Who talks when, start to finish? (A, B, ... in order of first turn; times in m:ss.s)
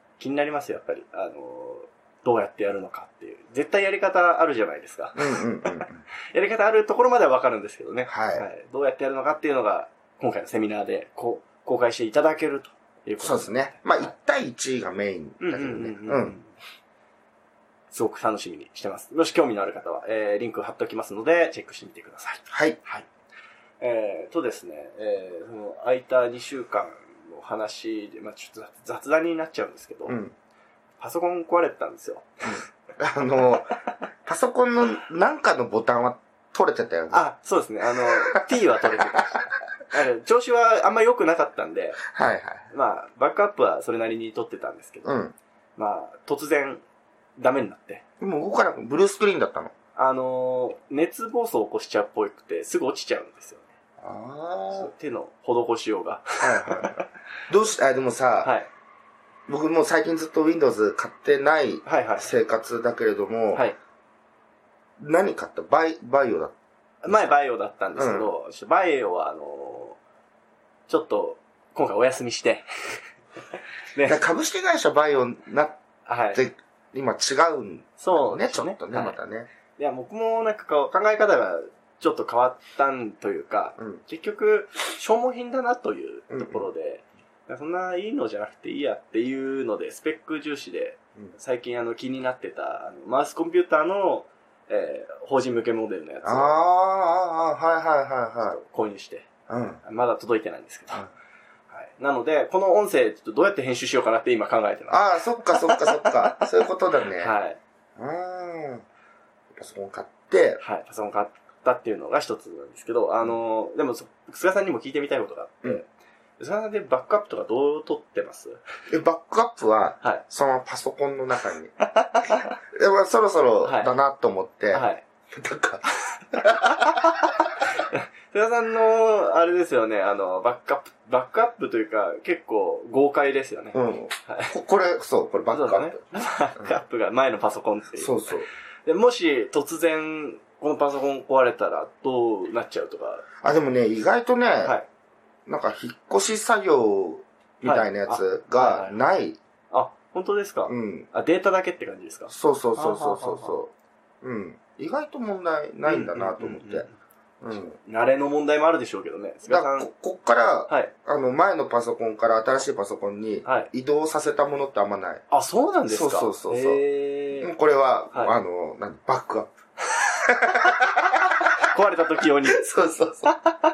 0:00.2-0:14.1 A
0:05.2-0:06.0 B
0:08.1-0:08.4 B
0:13.2-0:16.4 B
0:15.4-0:16.5 A
0:17.9-0:23.1 A
0:22.5-0:22.8 B
0:23.8-0:30.2 A
0:30.0-0:30.3 B
0:31.0-0:32.6 A
0:32.4-0:37.2 B
0:37.1-0:42.0 A
0:38.0-0:39.5 B
0:42.1-0:42.6 B
0:42.7-0:45.1 A
0:45.0-0:45.3 B
0:45.8-0:46.8 A
0:47.4-0:48.0 A
0:48.2-0:49.7 B
0:50.0-0:53.7 A
0:54.0-0:54.9 B
0:54.7-0:57.1 A
0:56.4-0:58.5 B
0:58.4-0:58.7 A
0:59.5-1:03.6 B
1:01.8-1:02.3 A
1:05.0-1:06.5 B
1:07.0-1:10.0 A
1:08.0-1:08.3 B
1:10.9-1:13.0 A
1:13.9-1:14.2 A
1:14.0-1:15.8 B
1:16.0-1:16.4 A
1:16.3-1:19.5 B
1:18.0-1:19.2 A
1:19.8-1:36.5 A
1:26.3-1:26.7 B
1:36.2-1:38.6 B
1:38.4-1:39.3 A
1:39.5-1:39.8 B
1:39.8-1:41.1 A
1:41.7-1:46.4 A
1:44.9-1:47.3 B
1:47.2-1:47.6 A
1:48.0-1:48.8 B
1:49.5-1:50.6 B
1:50.6-1:55.9 A
1:56.4-1:58.6 A
1:58.9-2:01.7 B
2:01.9-2:02.5 A
2:02.7-2:07.3 B
2:03.6-2:03.9 A
2:04.7-2:05.0 A
2:06.6-2:14.5 A
2:13.7-2:16.0 B
2:15.5-2:18.1 A
2:18.0-2:18.5 B
2:18.8-2:23.3 A
2:23.4-2:24.8 B
2:25.4-2:29.4 B
2:27.6-2:29.0 A
2:29.7-2:33.6 A
2:30.7-2:31.1 B
2:32.3-2:36.8 B
2:35.8-2:36.9 A
2:37.4-2:37.8 B
2:37.8-2:39.9 A
2:39.5-2:45.2 B
2:43.4-2:43.7 A
2:45.3-2:47.5 A
2:45.9-2:46.8 B
2:47.4-2:51.5 B
2:51.6-2:52.6 A
2:52.5-2:53.3 B